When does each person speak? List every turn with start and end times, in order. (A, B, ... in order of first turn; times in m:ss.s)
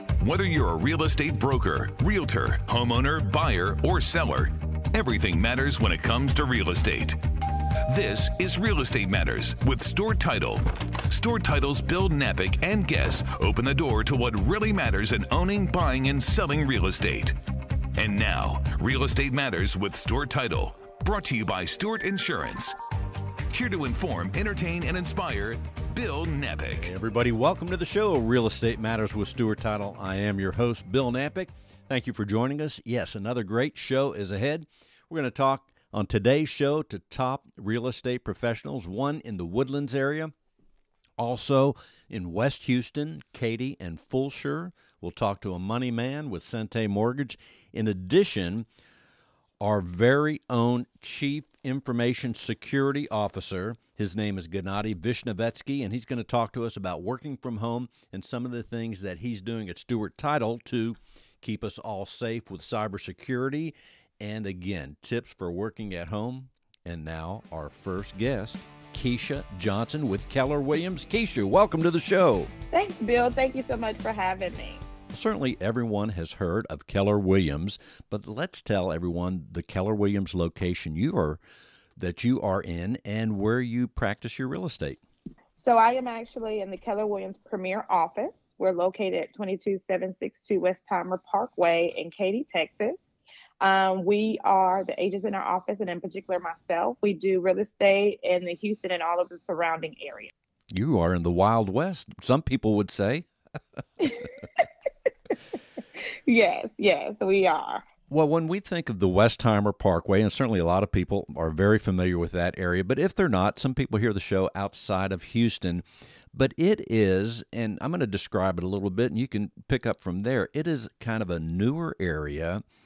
0:00.2-0:07.2 A
0:07.9-0:17.4 A
0:18.0-0:22.8 A
0:23.5-0:26.9 A
0:26.8-0:40.3 B
0:41.2-0:48.7 B
0:49.6-1:12.5 B
1:12.7-1:14.8 C
1:15.1-1:21.4 B
1:22.0-1:25.0 B
1:25.6-1:33.0 C
1:33.6-1:40.3 C
1:40.7-1:43.3 B
1:46.3-1:47.8 C
1:48.1-2:02.6 B